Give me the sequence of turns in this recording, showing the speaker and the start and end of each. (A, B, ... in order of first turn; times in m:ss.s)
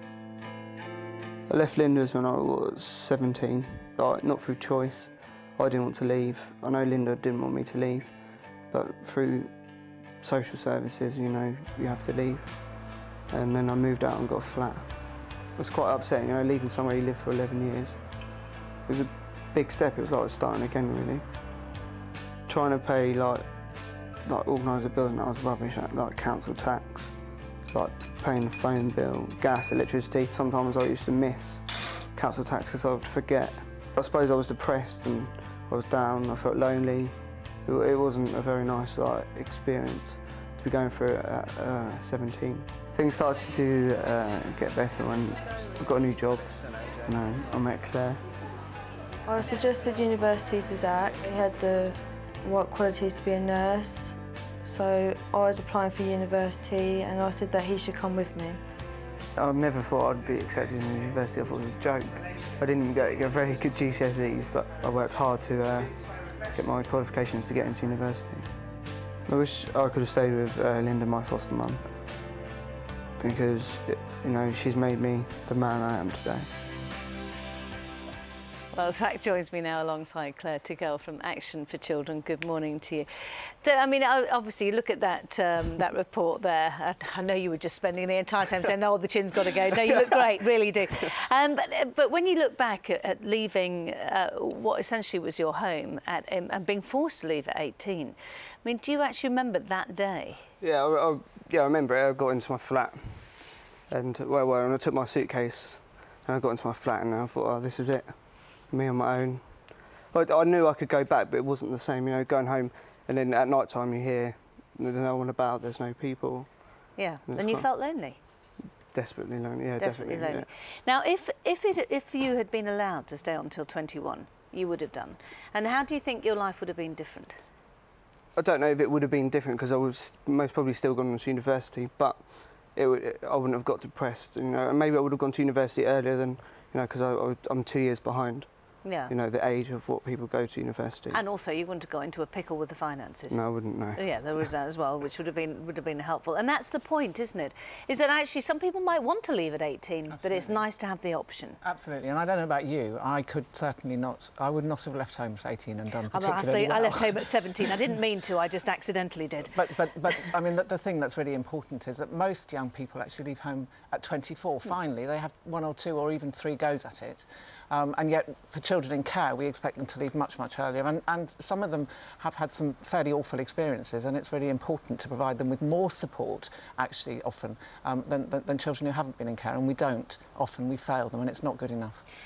0:01.5-0:09.6 A
0:10.2-0:18.2 A
0:18.8-0:21.2 A
0:22.5-0:23.5 A
0:24.2-0:27.2 A
0:27.7-0:48.2 A
0:49.2-0:58.6 B
0:59.4-1:08.6 A
1:09.2-1:11.9 A
1:13.2-1:16.5 A
1:18.7-1:40.5 C
1:40.6-1:58.3 A
1:56.9-1:58.2 C
1:58.9-2:00.5 A
1:59.8-2:07.4 C
2:08.3-2:21.2 A
2:18.8-2:19.1 C
2:21.1-2:31.6 C
2:23.3-2:24.2 A
2:30.1-2:30.7 D
2:31.6-2:37.7 D
2:36.1-2:39.7 C
2:39.5-3:02.0 D